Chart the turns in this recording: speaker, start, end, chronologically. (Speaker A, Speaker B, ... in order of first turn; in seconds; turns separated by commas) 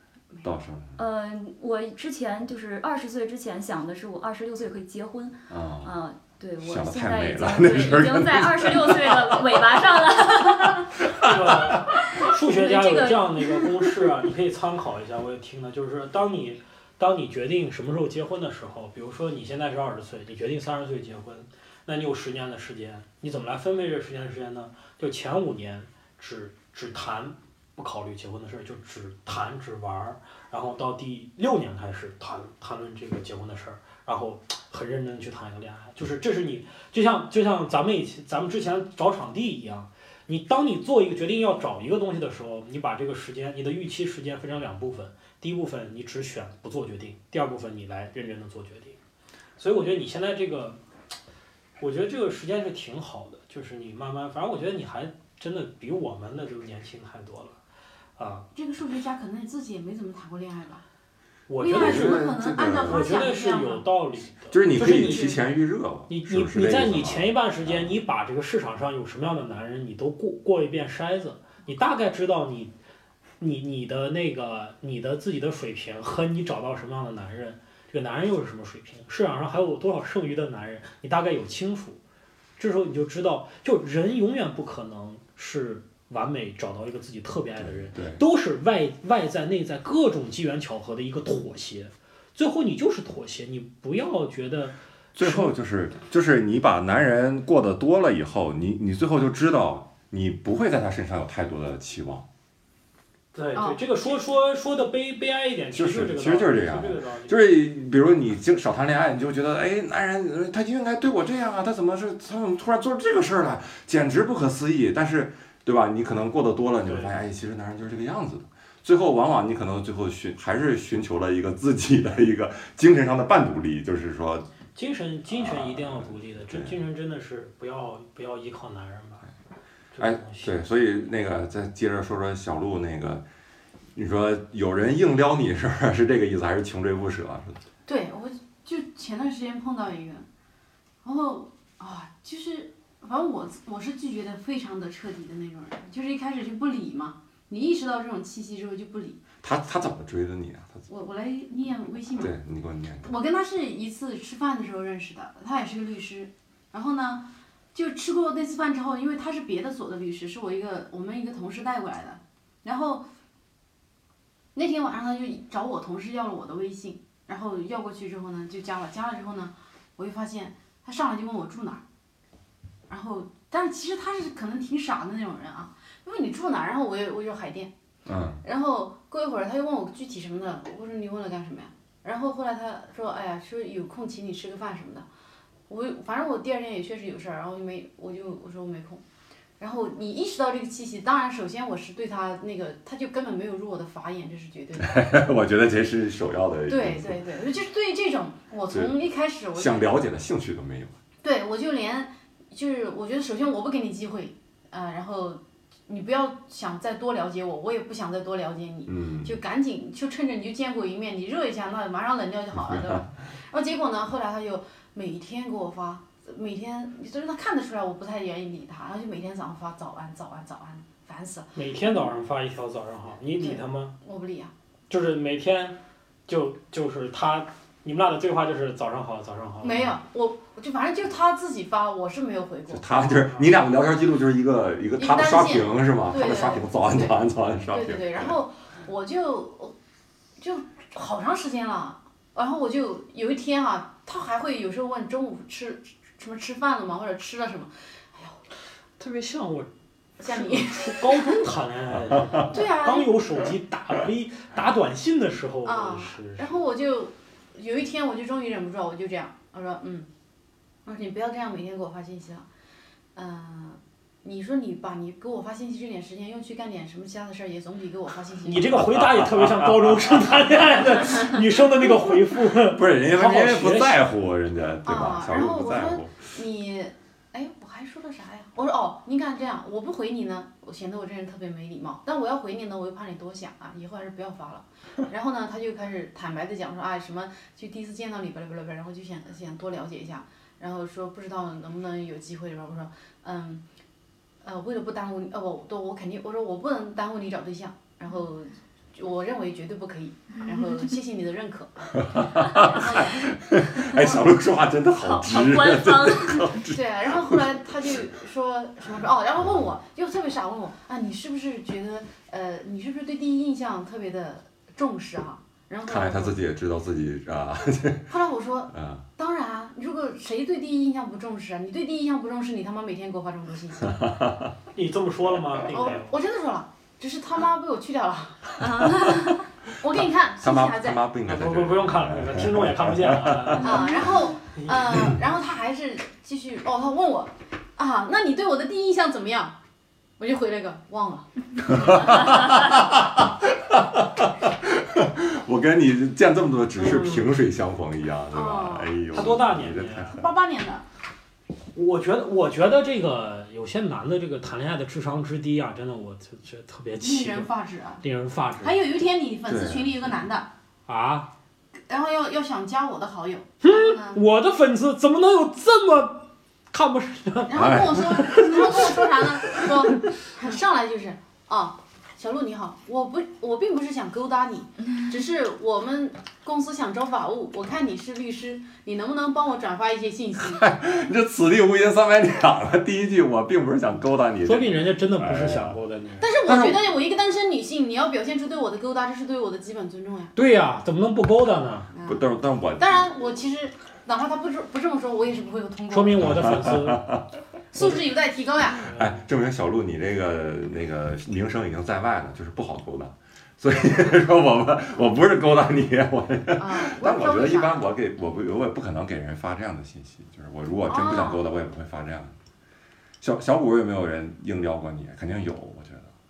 Speaker A: 0.4-1.0, Speaker B: 1.0-11.0, Speaker A: 5.5-5.9, Speaker A: 6.6-10.0, Speaker A: 11.0-11.7, Speaker C: 11.2-49.0, Speaker B: 12.0-13.6, Speaker C: 49.6-50.8, Speaker C: 51.8-57.6, Speaker C: 58.2-58.5, Speaker D: 58.5-60.8, Speaker C: 61.5-65.4, Speaker D: 61.6-63.8, Speaker A: 61.6-63.3, Speaker A: 64.5-67.9, Speaker D: 64.8-65.3, Speaker C: 66.1-72.7, Speaker C: 73.4-82.0, Speaker C: 82.6-95.5, Speaker A: 87.6-88.2, Speaker A: 95.1-102.2, Speaker C: 103.3-107.3, Speaker D: 103.5-103.8, Speaker A: 105.7-124.5, Speaker C: 116.8-117.1, Speaker C: 124.7-129.3, Speaker A: 125.3-126.8, Speaker C: 129.9-130.5, Speaker A: 130.0-133.2, Speaker A: 133.9-137.6, Speaker D: 137.8-140.2, Speaker D: 141.0-149.2, Speaker A: 149.4-150.9, Speaker D: 150.9-152.3, Speaker A: 152.2-153.1, Speaker D: 153.0-163.1, Speaker D: 164.5-171.8, Speaker D: 172.9-177.7, Speaker A: 178.1-178.4, Speaker D: 178.4-185.1, Speaker D: 185.7-189.0, Speaker D: 189.6-195.1, Speaker A: 194.8-197.2, Speaker D: 196.7-199.9, Speaker A: 198.7-199.0, Speaker A: 199.5-200.9, Speaker D: 201.2-222.1, Speaker A: 208.9-209.4, Speaker A: 212.5-213.0, Speaker C: 221.5-223.9, Speaker D: 223.4-224.5, Speaker C: 224.9-230.0, Speaker D: 229.6-232.9, Speaker A: 232.7-238.4, Speaker C: 233.1-233.5, Speaker D: 235.0-237.2, Speaker D: 237.7-239.7, Speaker D: 240.4-248.4, Speaker C: 249.0-249.7, Speaker D: 250.2-251.3, Speaker C: 250.2-256.6, Speaker D: 252.4-253.2, Speaker D: 255.6-260.1, Speaker D: 260.8-262.4, Speaker D: 263.1-268.8, Speaker C: 268.4-274.0, Speaker A: 268.8-270.0, Speaker A: 272.6-276.2, Speaker D: 274.8-293.6, Speaker D: 294.4-303.3, Speaker A: 301.9-307.6, Speaker D: 303.9-304.2, Speaker B: 305.0-306.6, Speaker D: 306.7-316.4, Speaker A: 315.8-318.2, Speaker D: 318.1-323.9, Speaker A: 318.7-319.0, Speaker A: 323.9-324.5, Speaker C: 324.7-326.1, Speaker D: 325.7-331.0, Speaker B: 328.6-329.5, Speaker A: 329.9-333.9, Speaker C: 331.2-335.1, Speaker D: 333.6-339.6, Speaker D: 340.2-341.8, Speaker A: 341.7-350.2, Speaker C: 346.8-347.3, Speaker D: 348.3-349.0, Speaker C: 349.1-350.2, Speaker D: 350.1-350.8, Speaker C: 351.7-357.5, Speaker D: 357.0-358.0, Speaker C: 358.0-358.8, Speaker D: 358.6-360.5, Speaker A: 359.5-360.0, Speaker C: 360.9-361.3, Speaker D: 361.9-364.2, Speaker C: 363.6-369.0, Speaker D: 367.5-380.6, Speaker A: 367.5-368.4, Speaker A: 380.4-385.8, Speaker C: 384.4-386.3, Speaker D: 386.2-390.3, Speaker A: 386.4-386.8, Speaker C: 390.3-391.9, Speaker D: 391.9-392.2, Speaker A: 392.0-393.1, Speaker D: 392.8-396.4, Speaker C: 395.9-397.1, Speaker A: 396.2-397.3, Speaker D: 397.7-398.9, Speaker C: 397.8-398.0, Speaker C: 398.8-399.2, Speaker A: 398.9-412.3, Speaker D: 406.6-407.8, Speaker D: 410.9-411.4, Speaker A: 413.2-416.1